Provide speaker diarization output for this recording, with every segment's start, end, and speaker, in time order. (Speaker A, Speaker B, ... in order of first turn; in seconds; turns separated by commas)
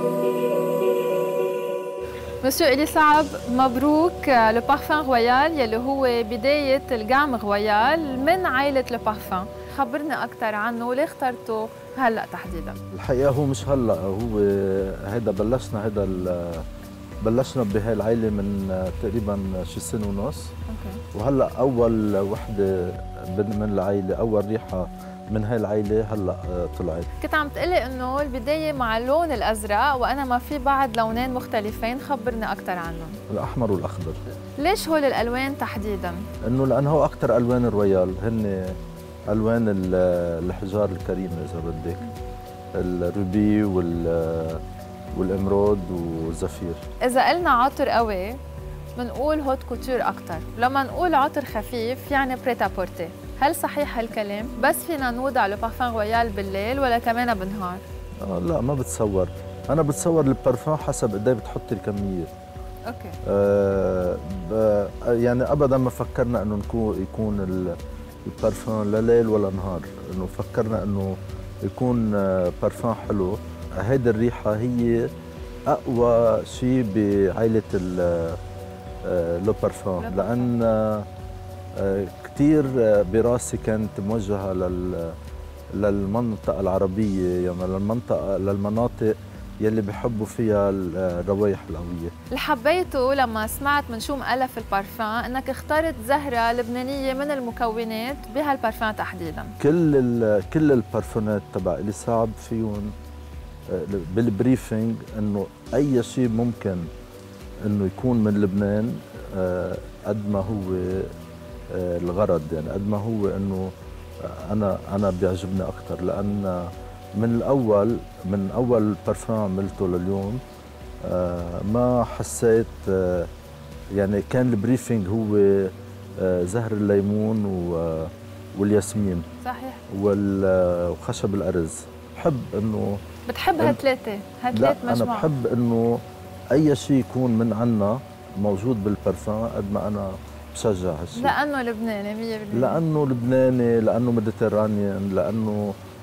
Speaker A: 2.4-12.8, Speaker B: 12.9-16.6, Speaker B: 17.2-20.5, Speaker A: 20.7-21.0, Speaker B: 21.1-27.1, Speaker A: 27.2-33.2, Speaker B: 33.3-34.2, Speaker A: 34.6-36.3, Speaker B: 36.4-38.8, Speaker B: 39.3-42.0, Speaker B: 42.8-44.6, Speaker B: 45.1-46.8, Speaker A: 47.0-48.4, Speaker A: 49.0-57.8, Speaker B: 58.2-62.3, Speaker A: 62.9-63.2, Speaker B: 63.2-75.1, Speaker B: 75.7-78.4, Speaker B: 79.0-81.1, Speaker A: 80.0-80.5, Speaker B: 81.8-85.2, Speaker B: 85.8-92.1, Speaker A: 92.3-99.5, Speaker B: 99.6-102.9, Speaker B: 103.7-106.9, Speaker B: 107.6-111.1, Speaker B: 111.7-120.4, Speaker B: 121.0-123.3, Speaker B: 124.0-129.2, Speaker A: 129.4-129.8, Speaker B: 129.9-133.0, Speaker A: 133.3-135.3, Speaker B: 134.5-136.0, Speaker B: 136.5-141.3, Speaker A: 141.2-142.8, Speaker B: 142.5-145.8